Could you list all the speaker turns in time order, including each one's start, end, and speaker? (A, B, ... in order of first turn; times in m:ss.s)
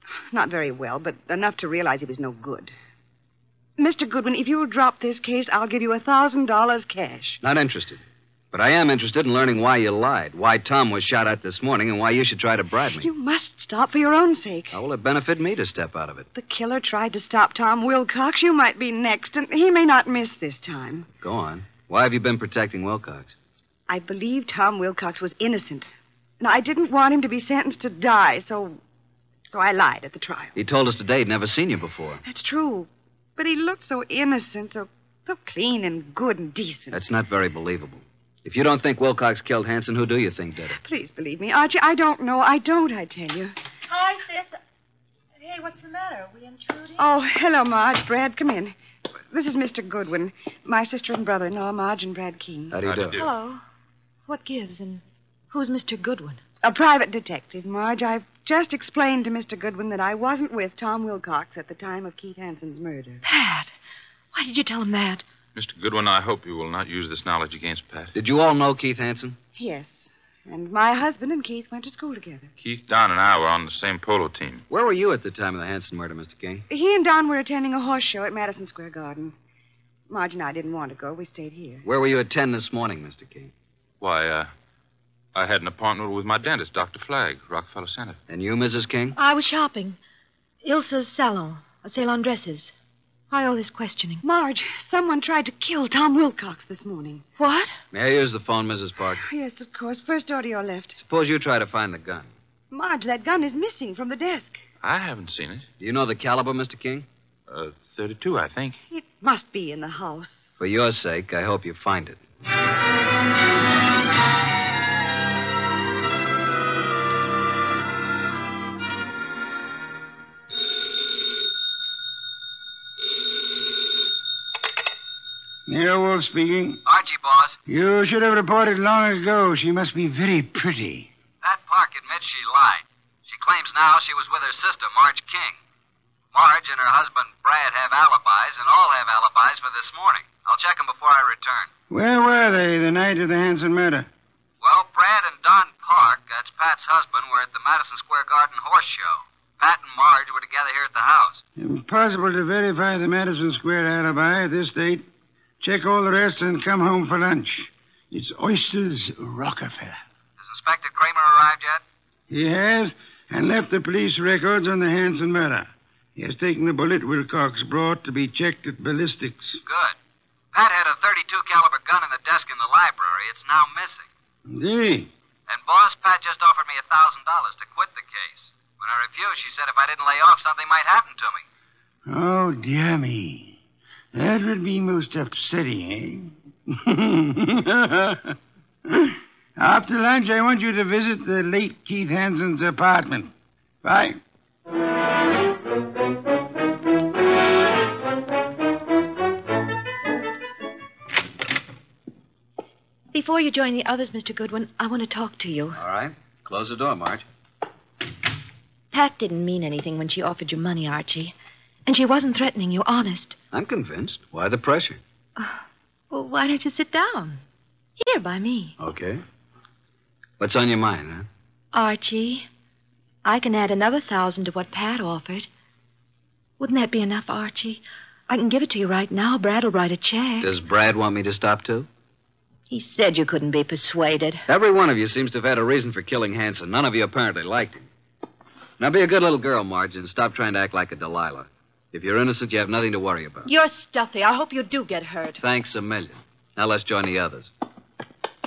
0:00.3-0:02.7 A
0:03.8-0:07.4 A
0:07.4-0:13.1 B
0:13.0-0:14.7 A
0:14.7-0:16.3 B
0:16.3-0:21.1 A
0:21.2-0:23.3 B
0:23.9-0:25.9 A
0:26.4-0:28.8 A
0:29.5-0:30.6 A
0:30.6-0:32.2 B
0:32.2-0:37.0 A
0:36.9-0:40.8 B
0:40.8-0:44.1 A
0:43.9-0:44.4 C
0:45.5-0:46.3 A
0:45.6-0:47.0 C
0:47.0-0:48.7 A
0:49.3-0:53.3 A
0:52.7-0:53.2 B
0:52.8-0:53.3 D
0:53.2-0:53.6 C
0:54.3-0:56.4 C
0:56.6-1:03.2 A
1:03.2-1:03.7 C
1:04.3-1:05.2 C
1:05.5-1:08.1 D
1:08.1-1:09.4 B
1:09.6-1:12.5 A
1:12.6-1:14.6 D
1:14.7-1:16.6 B
1:16.7-1:19.3 A
1:20.1-1:21.8 A
1:21.8-1:23.5 B
1:24.0-1:24.5 D
1:25.3-1:28.2 D
1:28.3-1:29.2 B
1:29.2-1:30.0 C
1:30.6-1:32.7 C
1:33.3-1:34.2 C
1:34.2-1:37.2 A
1:37.4-1:37.7 C
1:37.9-1:39.2 B
1:39.2-1:41.0 A
1:41.0-1:42.3 B
1:42.7-1:44.6 A
1:44.8-1:45.7 D
1:45.8-1:47.1 B
1:47.5-1:48.8 D
1:48.9-1:50.4 A
1:50.6-1:52.2 B
2:05.7-2:06.8 E
2:06.8-2:07.6 B
2:07.7-2:11.1 E
2:11.4-2:15.6 B
2:16.3-2:21.7 B
2:21.9-2:24.1 E
2:24.6-2:31.4 B
2:31.6-2:35.1 E
2:35.6-2:40.0 E
2:40.4-2:41.8 B
2:42.3-2:49.6 E
2:49.6-2:50.0 B
2:50.5-2:54.1 B
2:54.5-2:55.1 E
2:55.5-3:01.4 B
3:02.1-3:03.6 E
3:04.1-3:13.3 E
3:13.8-3:14.2 E
3:23.1-3:25.8 C
3:25.7-3:27.2 B
3:28.9-3:31.3 C
3:31.8-3:33.4 C
3:33.5-3:35.0 B
3:35.4-3:37.4 C
3:38.0-3:38.7 C
3:38.8-3:39.2 B
3:40.4-3:41.3 B
3:41.7-3:42.5 C
3:43.2-3:45.5 C
3:46.6-3:50.5 C
3:50.4-3:51.9 B
3:52.7-3:54.4 C
3:54.5-3:57.9 B
3:58.8-4:03.5 B
4:03.4-4:05.4 C
4:05.4-4:07.5 B